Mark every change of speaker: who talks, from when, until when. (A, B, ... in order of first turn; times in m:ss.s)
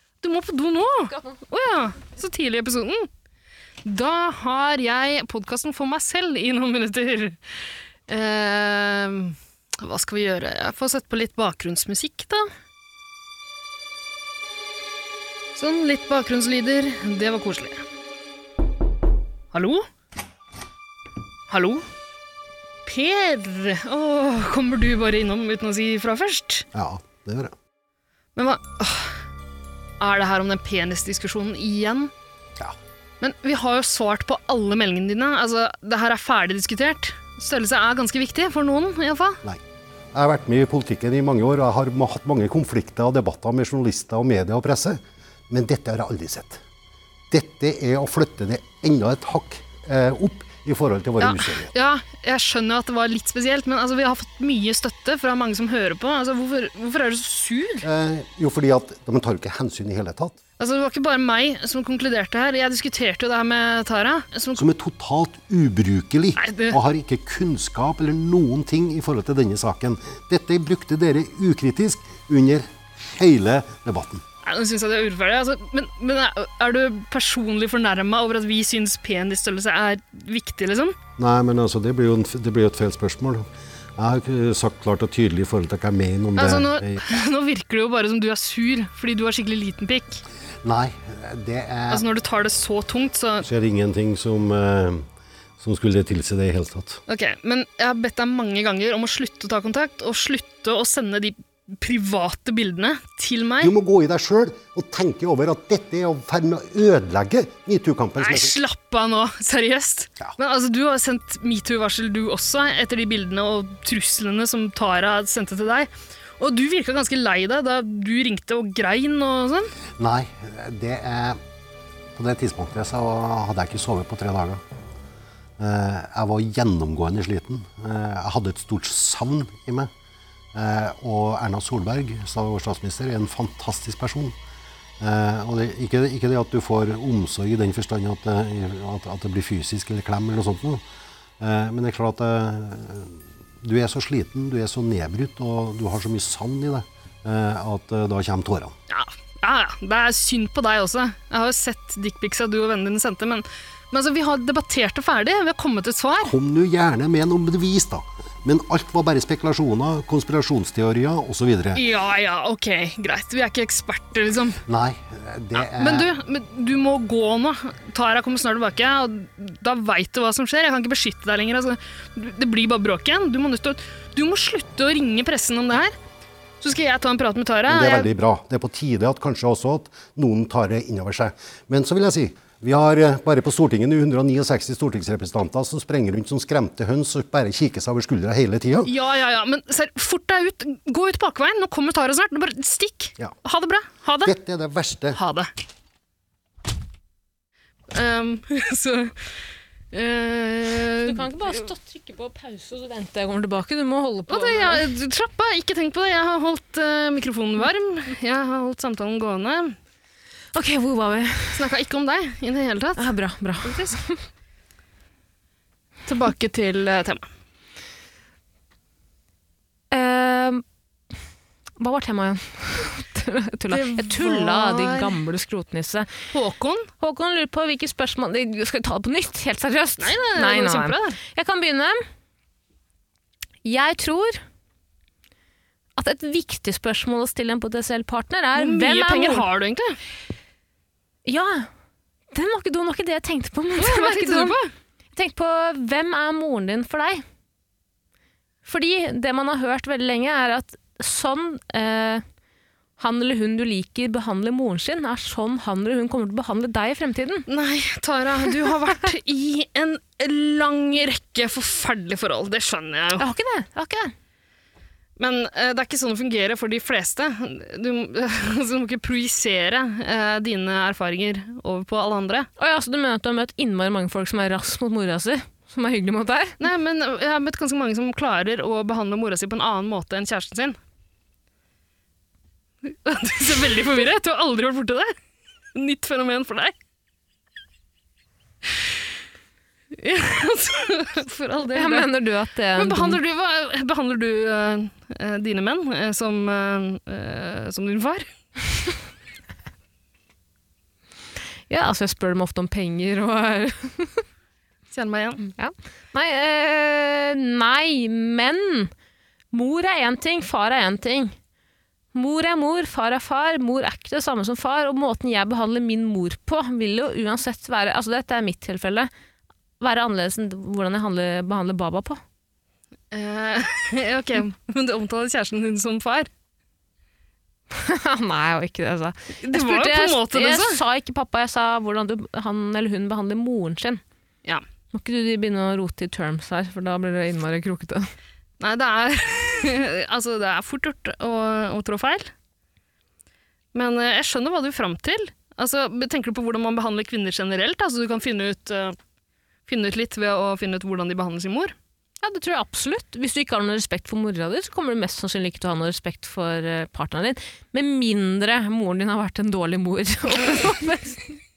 0:00.2-0:03.1 A
0:03.8-0:07.4 A
0:08.1-0:12.5 A
0:15.6-0:17.8 A
0:19.5-0:19.8 A
0:21.5-0:21.8 A
0:22.8-0:26.6 A
0:26.7-0:27.5 B
0:28.4-0:29.2 A
0:30.0-0:32.1 A
0:33.2-0:39.4 A
0:40.1-0:46.6 B
0:47.3-0:51.7 B
0:51.2-0:57.8 A
0:57.8-1:00.4 B
1:00.6-1:04.6 A
1:04.6-1:14.2 B
1:06.4-1:06.8 A
1:14.4-1:21.0 A
1:21.2-1:27.0 B
1:26.4-1:30.2 A
1:30.6-1:32.0 B
1:31.9-1:33.4 A
1:33.4-1:35.0 B
1:35.6-1:37.0 B
1:37.1-1:43.7 A
1:43.6-1:48.5 B
1:48.2-1:59.7 A
2:00.0-2:01.4 B
2:02.2-2:04.6 B
2:05.6-2:09.9 B
2:10.5-2:14.3 B
2:15.0-2:20.8 B
2:21.4-2:28.7 B
2:28.9-2:36.3 A
2:36.2-2:41.8 B
2:41.7-2:44.6 A
2:44.6-2:46.1 B
2:45.6-2:56.0 A
2:56.6-2:58.1 A
2:57.7-3:08.9 B
3:08.8-3:14.3 A
3:14.2-3:15.2 B
3:15.1-3:15.5 A
3:17.9-3:19.3 A
3:19.9-3:21.5 A
3:21.0-3:24.8 C
3:24.3-3:29.8 A
3:30.5-3:31.6 C
3:31.5-3:33.1 A
3:33.0-3:34.2 C
3:33.6-3:34.0 A
3:36.0-3:37.3 A
3:39.9-3:40.6 C
3:41.8-3:46.1 C
3:43.7-3:45.2 A
3:46.3-3:46.9 A
3:47.0-3:52.0 C
3:50.0-3:51.2 A
3:53.6-3:54.4 C
3:56.0-3:59.5 C
3:58.6-4:00.0 A
4:01.2-4:01.7 C
4:02.3-4:04.5 C
4:03.8-4:04.7 A
4:05.1-4:07.2 C
4:08.6-4:12.2 C
4:13.0-4:17.5 C
4:17.5-4:23.3 A
4:23.2-4:24.1 C
4:25.2-4:32.5 A
4:32.6-4:36.6 C
4:36.6-4:40.8 A
4:42.8-4:45.1 A
4:45.7-4:46.7 A
4:50.0-4:52.1 A
4:51.7-4:53.2 C
4:52.8-4:58.3 A
5:01.7-5:04.2 C
5:04.9-5:05.4 A
5:05.4-5:08.9 C
5:09.5-5:11.3 C
5:12.1-5:19.1 C
5:19.8-5:22.2 C
5:23.1-5:26.3 A
5:27.7-5:34.0 C
5:29.4-5:30.8 A
5:34.9-5:38.1 C
5:38.6-5:42.3 A
5:43.7-5:49.0 A
5:49.7-5:51.7 A
5:52.2-6:01.4 C